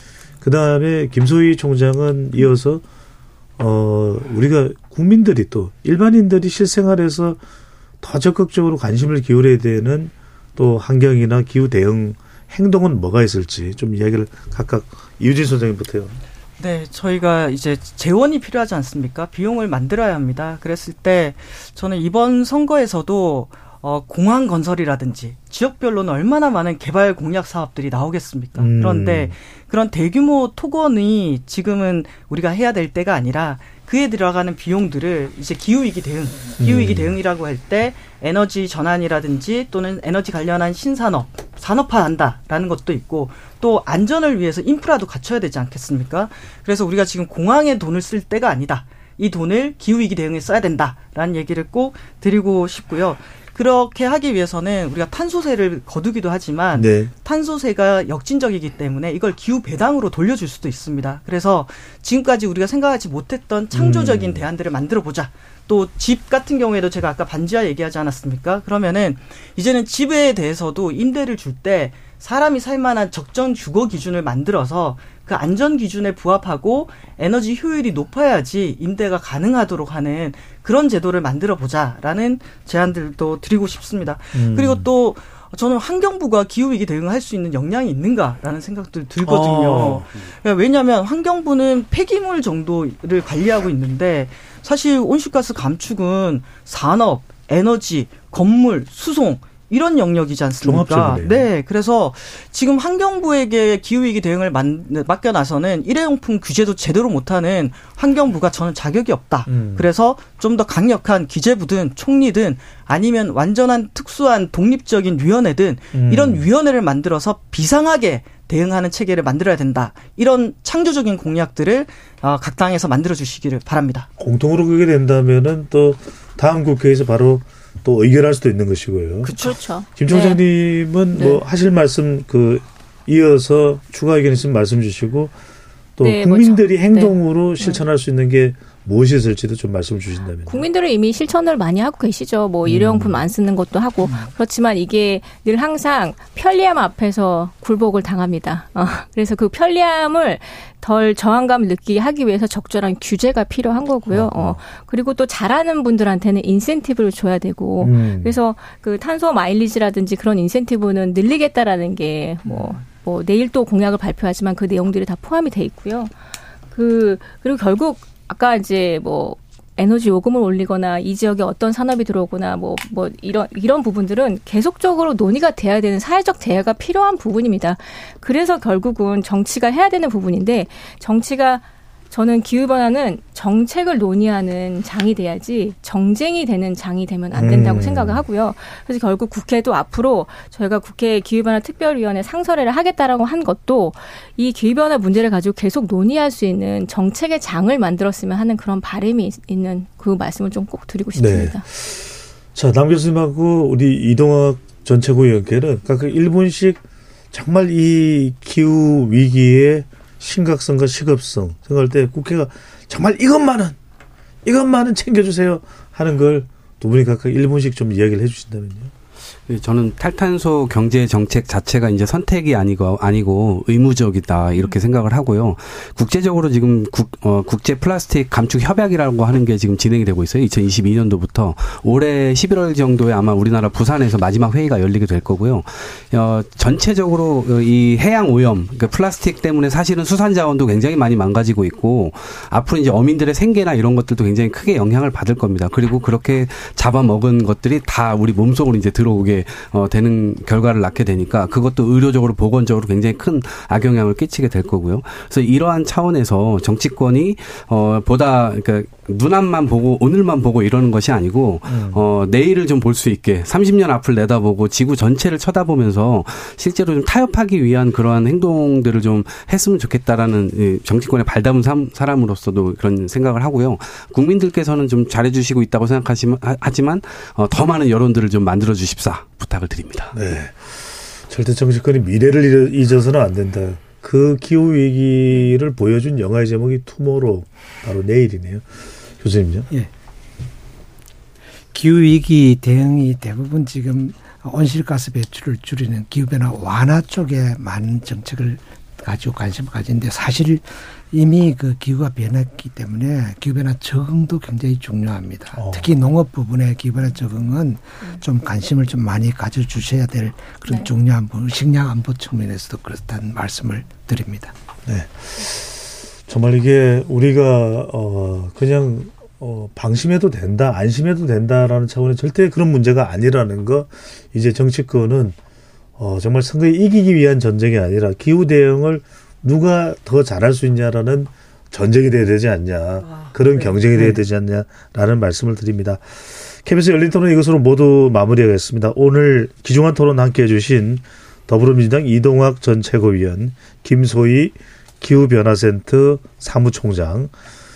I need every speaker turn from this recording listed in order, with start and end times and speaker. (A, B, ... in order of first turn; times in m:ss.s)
0:00.4-0:02.8 A
0:03.6-0:07.4 A
0:08.0-0:16.2 A
0:16.6-2:04.1 B
0:28.6-0:29.3 A
0:36.6-0:37.2 A
0:56.8-0:57.1 A
1:03.7-1:04.4 A
1:24.4-1:24.9 A
1:29.2-1:30.1 A
1:40.6-1:41.4 A
1:49.5-1:49.9 A
1:55.9-1:56.5 A
2:04.2-2:09.3 A
2:09.2-2:09.6 B
2:09.3-2:10.4 C
2:10.0-2:15.3 A
2:16.0-2:20.7 A
2:16.0-2:17.8 C
2:20.5-2:46.1 C
2:22.7-2:23.2 A
2:34.1-2:34.6 A
2:37.8-2:38.4 A
2:42.5-2:42.8 A
2:46.7-3:21.6 C
3:07.3-3:08.2 A
3:21.2-3:26.8 A
3:27.3-3:33.8 A
3:34.4-3:38.9 A
3:39.5-4:40.2 D
4:21.7-4:22.0 A
4:40.1-4:48.7 A
4:49.2-4:49.7 A
4:51.7-5:14.5 E
5:05.6-5:05.9 A
5:14.9-5:25.4 A
5:26.0-5:47.3 A
5:33.0-5:33.8 B
5:34.0-5:34.2 E